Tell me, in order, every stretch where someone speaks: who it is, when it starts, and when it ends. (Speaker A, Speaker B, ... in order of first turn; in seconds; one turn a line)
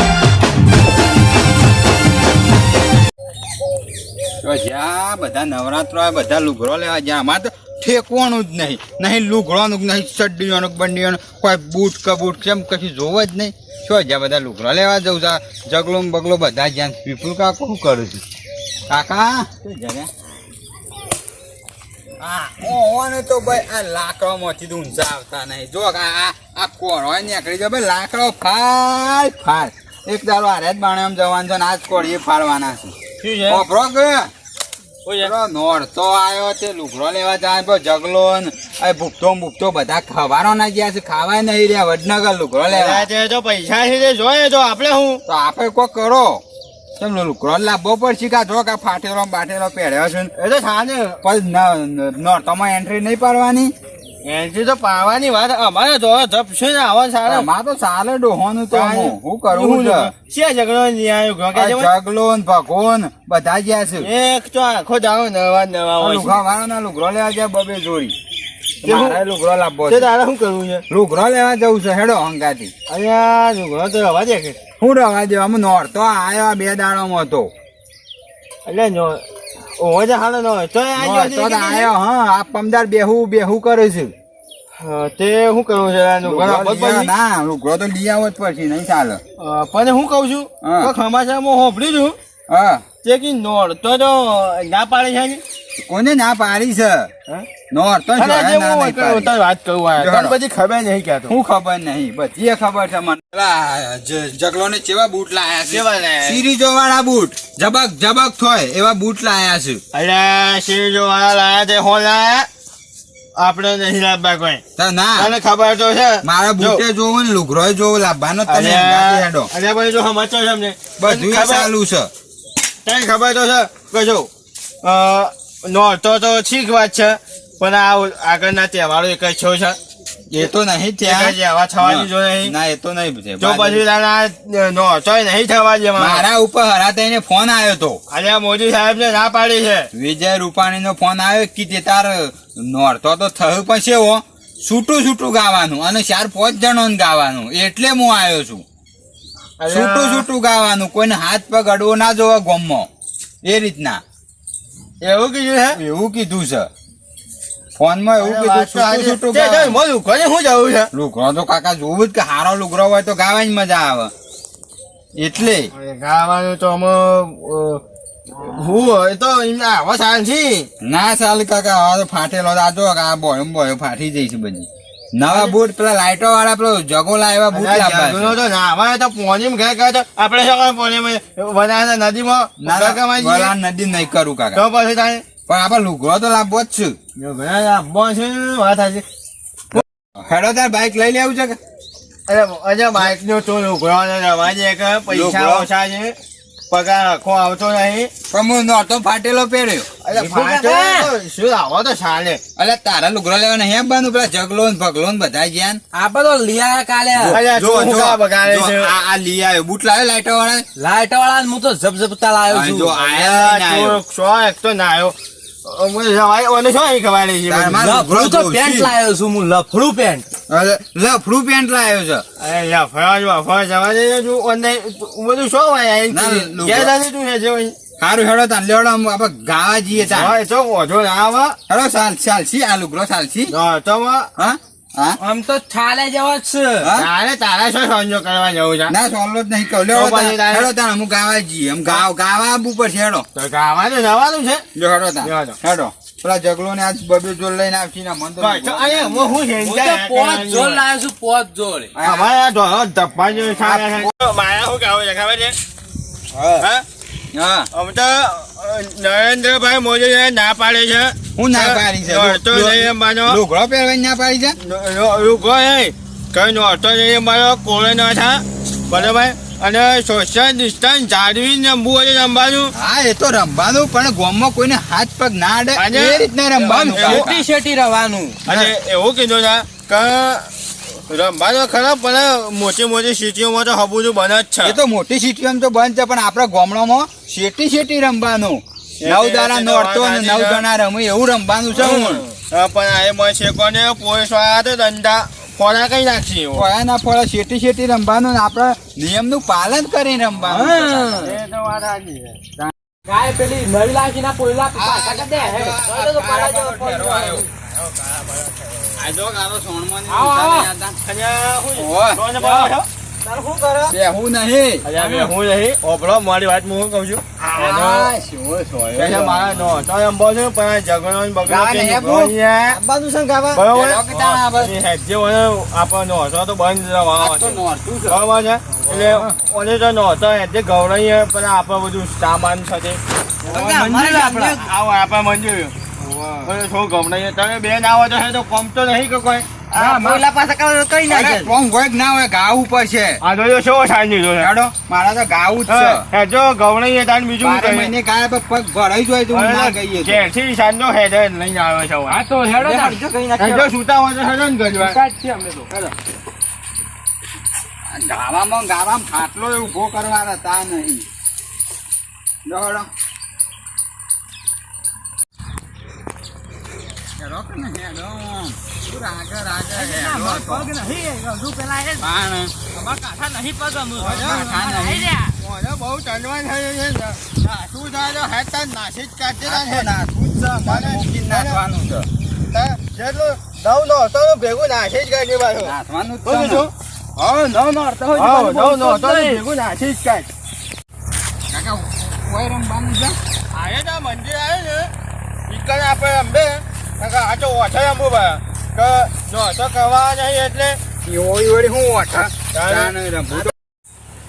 Speaker A: 4.4-18.2
Speaker A: 18.9-20.1
Speaker A: 22.2-32.9
Speaker B: 33.2-33.6
Speaker A: 33.5-34.3
Speaker B: 35.0-35.3
Speaker A: 35.2-43.1
Speaker B: 42.7-45.2
Speaker A: 45.2-46.4
Speaker A: 47.0-50.3
Speaker B: 50.3-51.2
Speaker A: 51.2-53.7
Speaker B: 54.2-57.5
Speaker A: 57.2-60.1
Speaker B: 58.7-61.9
Speaker A: 61.5-64.1
Speaker B: 64.0-66.4
Speaker A: 66.0-68.2
Speaker B: 68.8-69.2
Speaker A: 68.8-70.1
Speaker B: 69.9-70.8
Speaker A: 70.9-72.7
Speaker B: 72.9-74.6
Speaker A: 74.8-77.5
Speaker B: 78.7-79.2
Speaker B: 79.8-81.9
Speaker A: 81.0-84.1
Speaker B: 84.7-87.1
Speaker A: 86.2-89.2
Speaker B: 89.4-92.2
Speaker A: 90.6-90.9
Speaker A: 92.5-92.8
Speaker B: 93.0-95.4
Speaker A: 95.8-97.1
Speaker A: 97.7-99.3
Speaker B: 98.2-101.4
Speaker A: 100.0-100.3
Speaker A: 101.3-109.8
Speaker B: 105.7-106.4
Speaker B: 109.9-112.5
Speaker B: 113.3-114.6
Speaker A: 114.8-115.3
Speaker B: 115.2-116.8
Speaker A: 116.2-119.5
Speaker B: 118.5-121.7
Speaker A: 121.0-122.1
Speaker B: 122.8-124.3
Speaker B: 124.8-129.8
Speaker A: 130.3-133.8
Speaker B: 131.0-132.5
Speaker B: 133.4-136.2
Speaker A: 135.9-138.0
Speaker B: 138.1-139.9
Speaker A: 139.9-148.6
Speaker B: 149.6-150.3
Speaker A: 149.7-152.9
Speaker A: 153.4-154.0
Speaker B: 155.0-155.8
Speaker A: 155.7-156.7
Speaker A: 157.8-159.8
Speaker B: 158.2-160.9
Speaker A: 160.9-164.1
Speaker A: 165.2-165.7
Speaker B: 165.7-167.8
Speaker B: 168.3-170.7
Speaker A: 170.8-178.4
Speaker B: 175.3-175.6
Speaker B: 177.5-183.5
Speaker A: 182.6-184.6
Speaker B: 184.5-185.2
Speaker A: 185.5-187.0
Speaker B: 187.2-189.0
Speaker A: 189.7-191.6
Speaker B: 192.3-196.2
Speaker A: 195.1-195.7
Speaker B: 196.7-198.1
Speaker A: 198.3-199.9
Speaker B: 200.0-202.4
Speaker C: 200.1-201.1
Speaker A: 202.6-205.8
Speaker C: 205.9-207.4
Speaker A: 207.1-210.7
Speaker B: 207.3-208.9
Speaker C: 210.8-213.0
Speaker A: 212.5-214.0
Speaker B: 212.9-217.8
Speaker A: 217.5-218.9
Speaker C: 217.8-220.2
Speaker A: 220.5-222.2
Speaker B: 222.4-227.8
Speaker A: 226.1-226.9
Speaker A: 228.0-230.3
Speaker B: 230.0-231.6
Speaker A: 231.7-233.5
Speaker B: 233.5-234.3
Speaker A: 234.4-235.2
Speaker C: 235.2-236.9
Speaker A: 236.8-237.1
Speaker B: 237.0-238.9
Speaker A: 238.9-243.2
Speaker B: 239.9-240.7
Speaker B: 243.3-244.6
Speaker A: 244.7-249.5
Speaker B: 245.2-245.6
Speaker B: 248.4-250.8
Speaker C: 249.6-251.9
Speaker A: 251.9-252.3
Speaker B: 252.0-255.6
Speaker A: 253.6-254.1
Speaker C: 256.3-256.6
Speaker B: 256.6-256.9
Speaker A: 257.3-257.7
Speaker B: 257.7-263.4
Speaker A: 261.4-264.6
Speaker B: 264.6-272.7
Speaker A: 272.7-277.4
Speaker B: 275.7-277.3
Speaker C: 276.6-278.4
Speaker B: 278.4-280.5
Speaker B: 281.0-284.8
Speaker A: 284.6-292.3
Speaker B: 289.0-290.6
Speaker C: 291.8-292.2
Speaker B: 292.5-296.7
Speaker A: 296.5-301.3
Speaker C: 300.4-301.4
Speaker B: 301.1-302.4
Speaker C: 303.1-307.5
Speaker A: 304.7-307.5
Speaker B: 307.6-308.9
Speaker A: 308.9-311.0
Speaker C: 310.1-310.7
Speaker B: 311.0-312.9
Speaker A: 311.7-312.2
Speaker C: 312.4-312.7
Speaker C: 313.2-313.9
Speaker A: 313.9-314.9
Speaker B: 314.8-318.1
Speaker C: 314.9-315.3
Speaker A: 317.5-318.2
Speaker C: 317.6-319.1
Speaker B: 318.9-322.8
Speaker A: 318.9-319.8
Speaker A: 321.4-322.3
Speaker C: 322.7-323.6
Speaker B: 323.5-333.0
Speaker A: 323.6-324.7
Speaker A: 327.2-328.2
Speaker C: 328.7-329.3
Speaker C: 333.5-334.6
Speaker A: 333.5-334.5
Speaker B: 333.6-335.8
Speaker C: 336.0-336.4
Speaker B: 336.4-339.7
Speaker A: 339.7-340.3
Speaker C: 339.7-341.5
Speaker A: 341.1-343.2
Speaker B: 343.2-344.5
Speaker A: 344.4-346.1
Speaker B: 345.7-347.9
Speaker A: 347.4-350.2
Speaker B: 349.3-352.2
Speaker C: 352.1-353.7
Speaker A: 352.6-353.0
Speaker B: 353.4-355.0
Speaker C: 354.7-355.9
Speaker A: 357.9-361.1
Speaker A: 362.4-362.9
Speaker A: 367.2-370.7
Speaker C: 369.7-372.1
Speaker A: 372.0-372.5
Speaker C: 372.7-375.4
Speaker B: 374.0-374.4
Speaker A: 374.0-375.1
Speaker B: 375.4-379.9
Speaker A: 379.4-382.1
Speaker B: 380.5-381.6
Speaker B: 382.5-386.7
Speaker A: 385.6-389.4
Speaker B: 388.1-390.3
Speaker A: 391.5-393.2
Speaker B: 393.5-394.9
Speaker B: 395.5-400.8
Speaker A: 401.0-403.5
Speaker B: 402.5-403.4